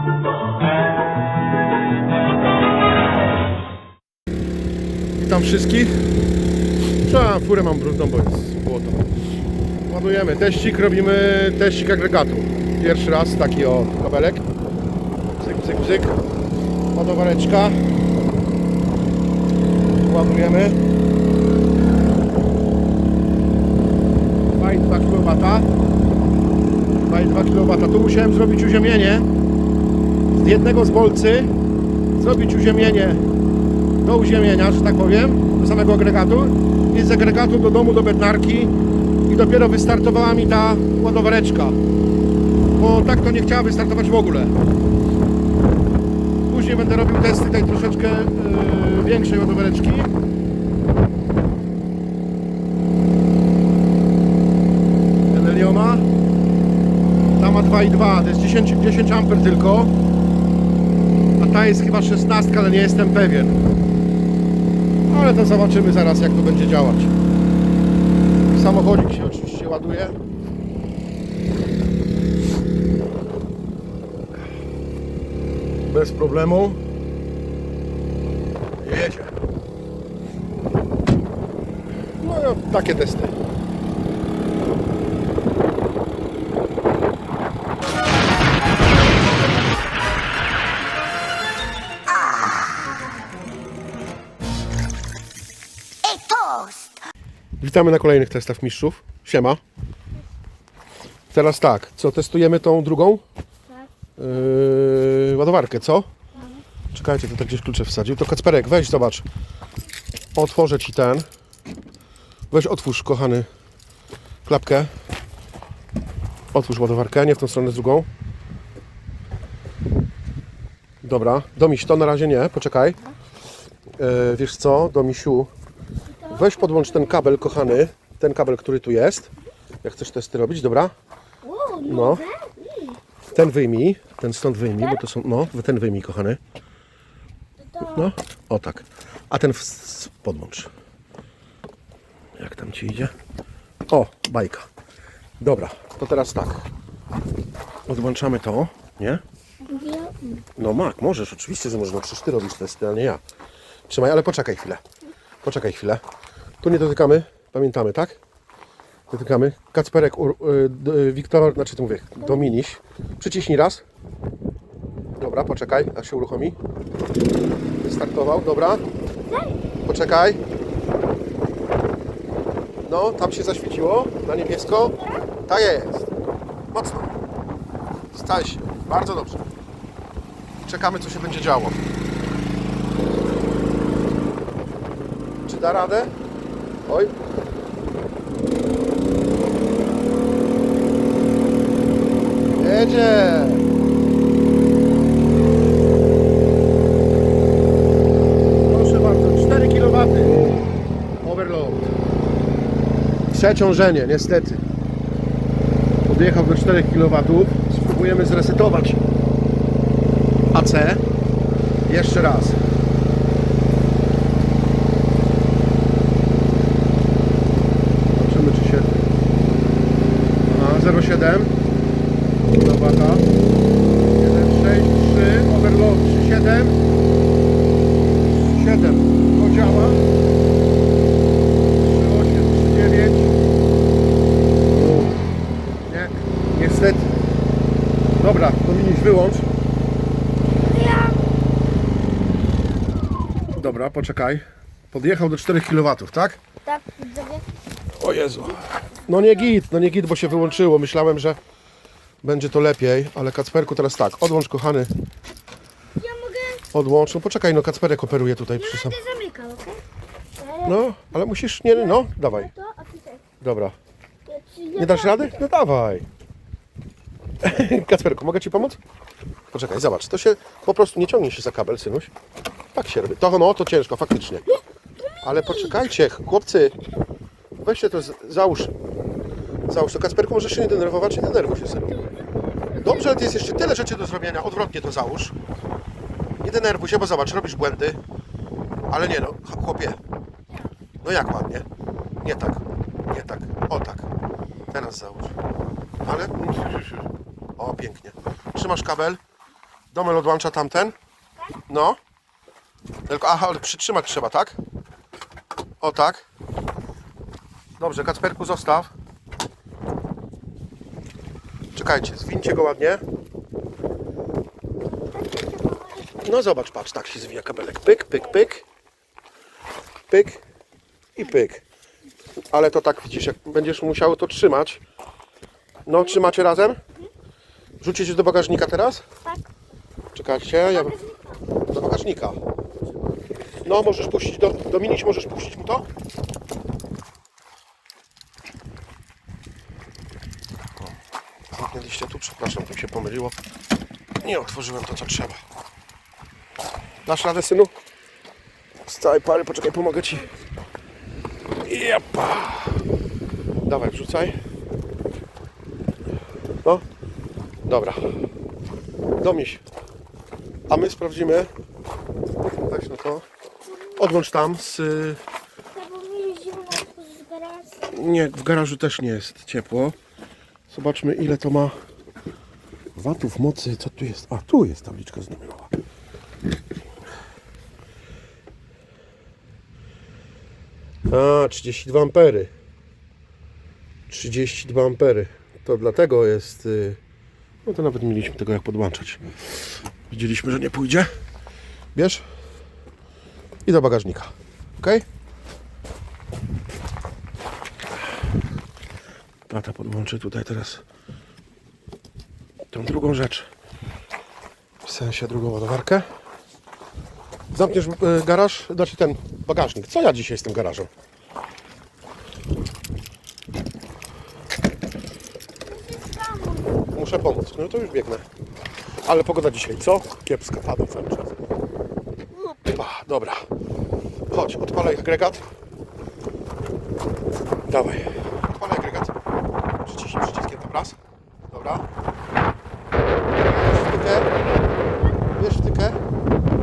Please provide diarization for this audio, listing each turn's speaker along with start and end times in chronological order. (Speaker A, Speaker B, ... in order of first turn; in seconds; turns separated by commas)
Speaker A: 5.2-6.0, Speaker A: 7.0-9.1, Speaker A: 9.8-14.4, Speaker A: 15.4-16.2, Speaker A: 16.9-17.8, Speaker A: 20.0-20.8, Speaker A: 24.6-25.7, Speaker A: 27.0-29.3, Speaker A: 30.3-31.5, Speaker A: 32.2-33.2, Speaker A: 34.0-38.7, Speaker A: 39.3-41.8, Speaker A: 42.8-44.5, Speaker A: 46.5-50.1, Speaker A: 55.3-56.0, Speaker A: 57.4-59.9, Speaker A: 61.4-63.6, Speaker A: 65.1-67.1, Speaker A: 68.5-70.1, Speaker A: 75.9-76.8, Speaker A: 78.8-79.3, Speaker A: 82.2-83.3, Speaker A: 97.6-99.6, Speaker A: 101.3-103.2, Speaker A: 104.2-106.1, Speaker A: 106.9-109.2, Speaker A: 110.3-111.2, Speaker A: 112.5-113.5, Speaker A: 114.4-114.9, Speaker A: 116.5-118.1, Speaker A: 121.0-123.0, Speaker A: 124.0-125.5, Speaker B: 126.2-127.3, Speaker A: 126.3-129.3, Speaker A: 129.8-130.9, Speaker B: 131.4-133.0, Speaker A: 131.8-132.2, Speaker A: 133.3-136.4, Speaker B: 137.6-138.1, Speaker A: 137.9-140.7, Speaker A: 142.4-143.1, Speaker A: 143.9-144.7, Speaker A: 145.4-146.7, Speaker A: 147.8-149.2, Speaker B: 149.7-150.4, Speaker A: 150.6-153.2, Speaker A: 153.9-154.8, Speaker A: 155.4-156.0, Speaker A: 156.6-158.2, Speaker A: 159.1-163.8, Speaker A: 165.2-166.6, Speaker A: 167.8-168.8, Speaker B: 169.3-169.6, Speaker A: 169.8-170.4, Speaker A: 172.8-176.1, Speaker B: 174.9-175.3, Speaker A: 176.7-177.1, Speaker A: 178.1-179.4, Speaker A: 180.6-181.8, Speaker A: 185.4-186.1, Speaker A: 186.9-187.1, Speaker A: 192.5-193.6, Speaker A: 198.6-200.5, Speaker A: 201.2-201.9, Speaker A: 203.3-204.6, Speaker A: 206.0-209.0, Speaker A: 210.5-211.0, Speaker A: 211.9-212.6, Speaker A: 218.1-219.0, Speaker A: 220.5-221.5, Speaker A: 222.5-223.3, Speaker A: 224.1-226.8, Speaker A: 228.4-230.0, Speaker A: 231.8-233.3, Speaker A: 235.9-237.1, Speaker A: 238.2-239.4, Speaker B: 240.6-241.2, Speaker A: 243.5-246.4, Speaker B: 246.7-247.5, Speaker A: 247.9-251.4, Speaker A: 252.2-254.9, Speaker B: 256.0-256.6, Speaker A: 256.7-259.0, Speaker B: 258.6-259.8, Speaker B: 260.4-260.8, Speaker A: 260.6-262.5, Speaker B: 261.7-263.2, Speaker A: 263.4-263.8, Speaker B: 264.3-265.4, Speaker A: 264.8-266.1, Speaker A: 267.4-268.8, Speaker A: 269.5-272.1, Speaker A: 272.7-274.6, Speaker A: 275.2-276.8, Speaker B: 275.2-275.8, Speaker A: 277.6-278.7, Speaker A: 279.7-282.1, Speaker A: 282.7-285.3, Speaker A: 286.4-288.0, Speaker A: 288.9-290.0, Speaker A: 291.0-291.6, Speaker A: 292.2-294.1, Speaker A: 294.7-295.3, Speaker A: 296.0-297.0, Speaker A: 297.6-299.2, Speaker A: 299.9-300.9, Speaker A: 301.7-302.0, Speaker A: 303.1-304.6, Speaker A: 305.8-306.2, Speaker A: 307.8-308.9, Speaker A: 311.7-313.0, Speaker B: 315.0-316.2, Speaker A: 316.2-318.6, Speaker A: 320.1-320.4, Speaker A: 321.1-321.6, Speaker A: 322.5-324.8, Speaker A: 325.9-326.8, Speaker A: 327.8-329.0, Speaker A: 330.1-331.0, Speaker B: 330.6-331.4, Speaker A: 331.7-332.4, Speaker A: 333.6-335.8, Speaker A: 341.5-343.4, Speaker A: 344.2-345.4, Speaker A: 347.0-347.7, Speaker A: 348.8-350.3, Speaker A: 351.6-352.8, Speaker A: 353.6-354.4, Speaker A: 357.6-358.0, Speaker A: 359.2-359.6, Speaker A: 360.7-361.5, Speaker A: 362.6-363.2, Speaker A: 363.9-365.2, Speaker B: 365.7-367.9, Speaker A: 367.9-369.9, Speaker A: 370.7-371.7, Speaker A: 372.9-375.7, Speaker A: 381.1-382.5, Speaker A: 384.1-387.0, Speaker A: 387.6-391.1, Speaker A: 391.9-392.2, Speaker A: 393.6-395.0, Speaker A: 399.5-400.8, Speaker A: 402.7-403.5, Speaker A: 404.8-406.1, Speaker A: 407.5-410.9, Speaker B: 415.7-416.8, Speaker A: 416.9-418.2, Speaker A: 419.0-421.3, Speaker A: 422.4-423.4, Speaker A: 424.3-425.4, Speaker A: 427.7-429.1, Speaker A: 429.8-431.0, Speaker A: 431.5-431.8, Speaker A: 433.4-434.3, Speaker A: 435.3-436.0